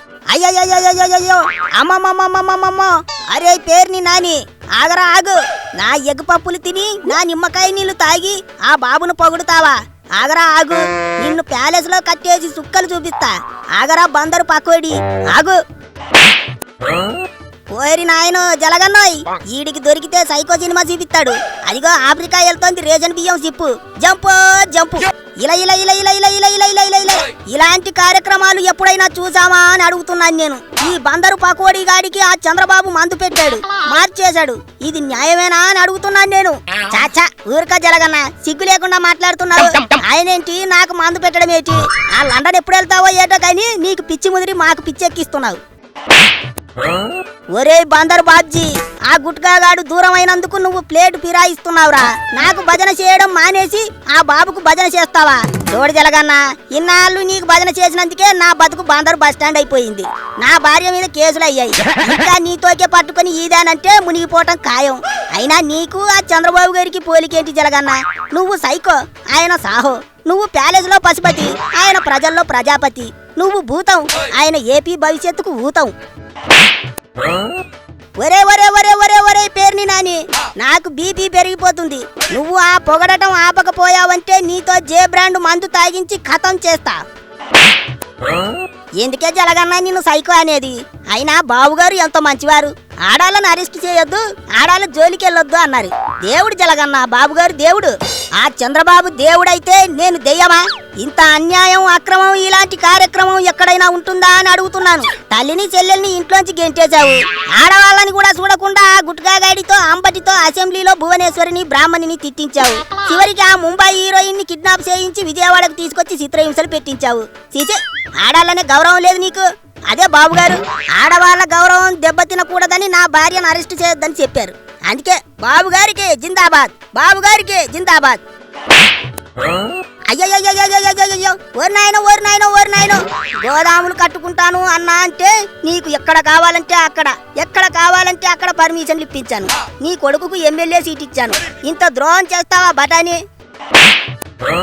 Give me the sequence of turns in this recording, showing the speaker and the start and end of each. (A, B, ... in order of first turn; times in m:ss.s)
0:00.3-0:15.6 A
0:17.7-0:45.6 A
0:47.5-1:15.9 A
1:18.2-1:27.0 A
1:29.0-2:08.2 A
2:10.1-2:23.2 A